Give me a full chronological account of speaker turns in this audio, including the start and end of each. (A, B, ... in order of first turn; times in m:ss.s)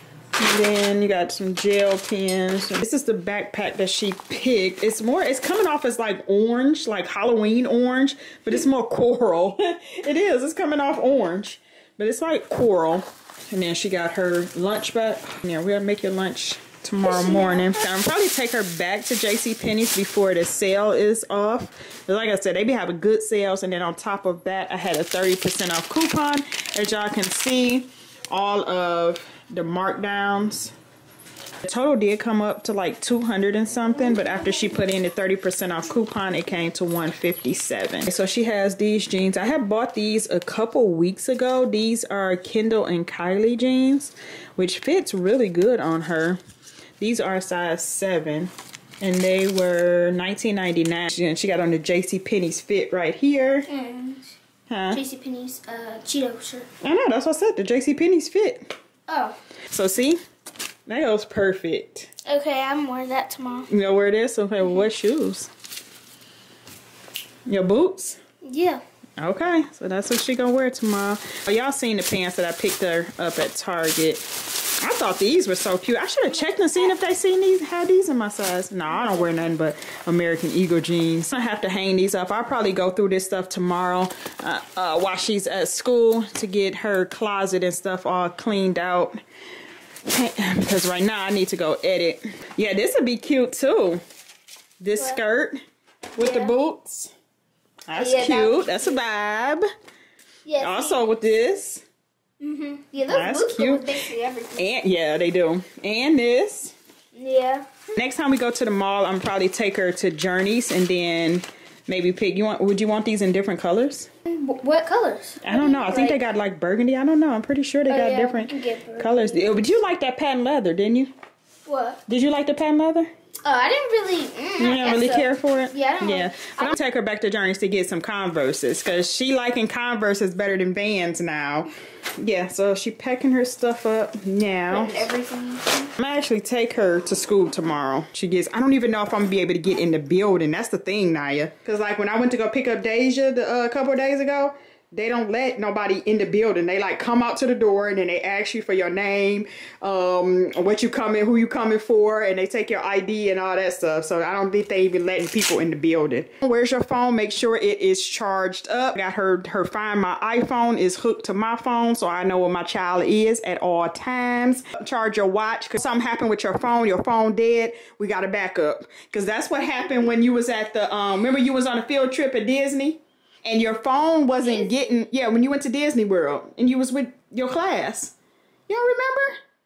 0:00.4-0:30.7 A
0:17.0-0:17.8 B
0:31.6-0:46.4 A
0:34.1-0:34.4 B
0:47.0-0:53.7 A
0:53.7-0:54.3 B
0:54.7-0:55.0 A
0:54.9-0:56.7 B
0:56.8-0:58.7 A
0:59.1-0:59.4 B
0:59.7-1:00.2 A
1:00.9-1:02.1 A
1:02.2-1:03.7 B
1:03.7-1:05.5 A
1:07.4-1:08.2 A
1:08.4-1:08.8 B
1:09.2-1:14.2 A
1:14.8-1:29.2 A
1:18.9-1:19.3 B
1:30.0-1:34.0 A
1:34.8-1:35.6 A
1:36.2-1:37.1 A
1:36.2-1:36.5 B
1:37.9-1:39.6 A
1:38.0-1:39.0 B
1:40.4-1:41.0 B
1:40.6-1:41.8 A
1:42.4-1:44.7 B
1:43.1-1:43.8 A
1:44.6-1:46.7 A
1:47.1-1:47.7 B
1:47.9-1:54.1 A
1:54.2-1:56.2 B
1:55.4-2:01.1 A
1:57.9-1:59.5 B
2:01.6-2:02.0 B
2:02.1-2:03.1 A
2:03.4-2:06.8 B
2:04.6-2:15.0 A
2:14.7-2:15.9 B
2:16.0-2:58.1 A
2:54.4-2:54.7 B
2:58.7-2:59.3 A